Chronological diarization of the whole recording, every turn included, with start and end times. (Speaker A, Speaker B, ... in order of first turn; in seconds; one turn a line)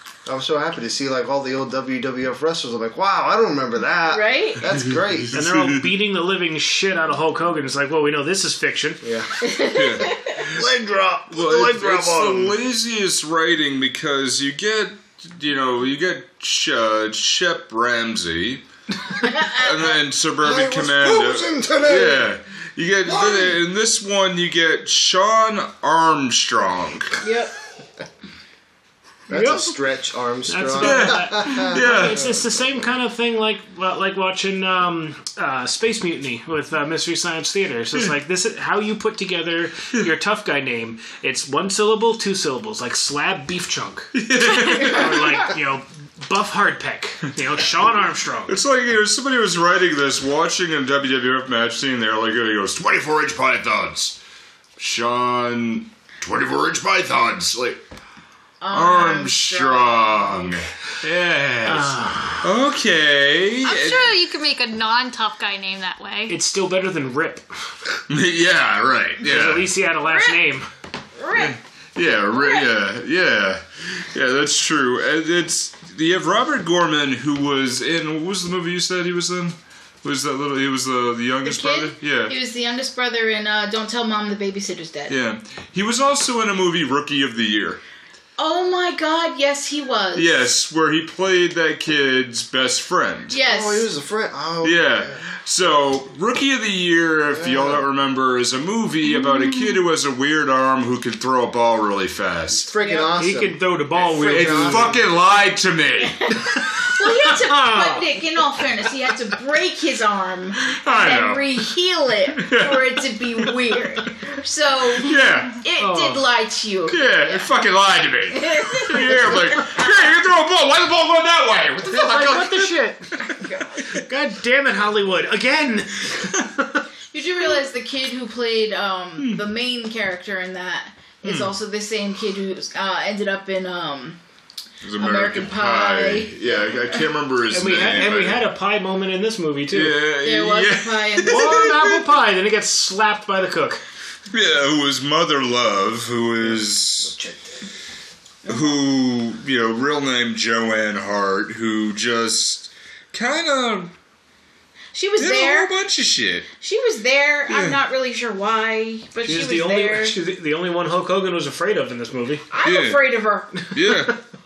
Speaker A: 0.2-5.4
Speaker B: 4.1-4.7
Speaker C: 5.3-5.9
Speaker D: 5.3-9.0
Speaker A: 9.0-9.3
Speaker B: 9.4-10.3
Speaker C: 9.7-10.7
Speaker A: 10.5-12.6
Speaker C: 11.3-18.6
Speaker B: 19.2-19.8
Speaker C: 19.3-27.2
Speaker A: 20.4-22.3
Speaker A: 23.0-23.6
Speaker B: 27.2-27.5
Speaker A: 29.3-32.7
Speaker D: 29.3-29.8
Speaker D: 30.5-48.6
Speaker C: 30.8-32.3
Speaker C: 44.1-45.4
Speaker C: 48.5-54.1
Speaker C: 54.8-57.8
Speaker B: 58.6-60.6
Speaker C: 58.7-64.1
Speaker D: 61.6-62.5
Speaker E: 63.6-66.4
Speaker D: 66.3-68.0
Speaker C: 68.1-69.7
Speaker D: 69.2-70.7
Speaker B: 70.0-70.4
Speaker B: 71.2-71.6
Speaker C: 71.3-82.4
Speaker B: 72.3-72.7
Speaker B: 81.4-85.2
Speaker C: 85.1-87.8
Speaker B: 88.4-90.4
Speaker C: 90.1-93.4
Speaker B: 93.3-93.9
Speaker A: 93.4-95.2
Speaker C: 94.6-102.7
Speaker A: 97.3-97.8
Speaker E: 99.2-99.8
Speaker A: 102.5-105.0
Speaker B: 102.8-103.1
Speaker D: 103.2-105.0
Speaker C: 104.2-106.3
Speaker B: 106.0-117.5
Speaker D: 106.5-108.6
Speaker C: 110.6-111.5
Speaker C: 112.3-113.8
Speaker C: 114.9-115.6
Speaker D: 115.8-116.2
Speaker C: 116.9-123.4
Speaker B: 118.3-120.1
Speaker D: 121.9-123.1
Speaker B: 123.3-124.0
Speaker D: 123.9-126.8
Speaker B: 127.1-134.2
Speaker C: 129.2-129.4
Speaker C: 131.2-131.5
Speaker C: 134.8-138.5
Speaker B: 135.0-137.1
Speaker D: 137.5-140.1
Speaker C: 139.7-142.0
Speaker B: 140.2-141.7
Speaker D: 141.2-143.8
Speaker C: 144.3-147.1
Speaker A: 146.4-147.6
Speaker B: 148.4-148.8
Speaker C: 148.4-153.9
Speaker B: 154.9-155.7
Speaker C: 155.2-156.5
Speaker B: 156.6-160.2
Speaker C: 157.5-157.8
Speaker D: 159.2-162.4
Speaker B: 162.5-163.7
Speaker C: 162.6-163.0
Speaker D: 163.6-164.2
Speaker C: 163.7-164.1